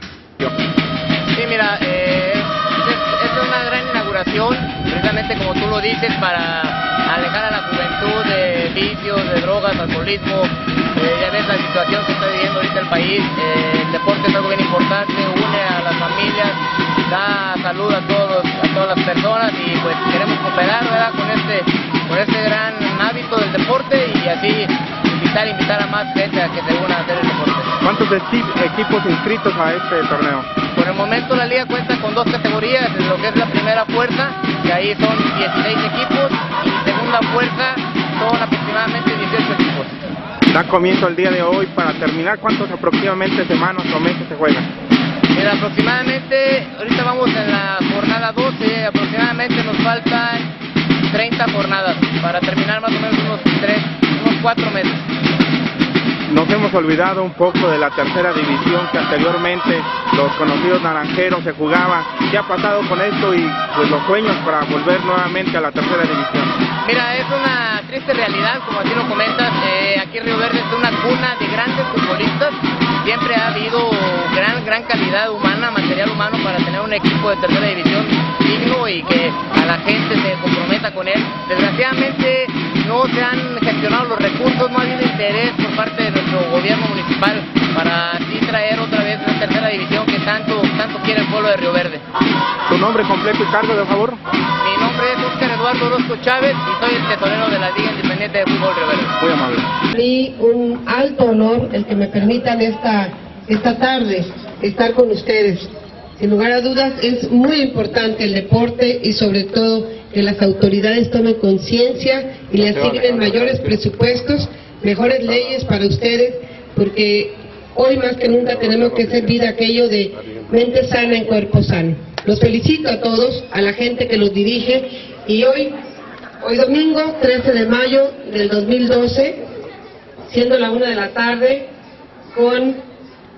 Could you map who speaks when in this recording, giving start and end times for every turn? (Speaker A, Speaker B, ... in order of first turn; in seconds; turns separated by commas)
Speaker A: 1.3-27.7, Speaker B: 27.8-30.5, Speaker A: 30.7-40.0, Speaker B: 40.5-44.7, Speaker A: 45.3-50.5, Speaker A: 51.1-55.1, Speaker B: 56.3-66.6, Speaker A: 66.8-92.0, Speaker B: 92.7-94.2, Speaker A: 94.6-99.2, Speaker B: 99.2-99.7, Speaker C: 99.9-125.7, Speaker C: 126.4-129.4, Speaker C: 130.3-131.7, Speaker C: 132.3-132.8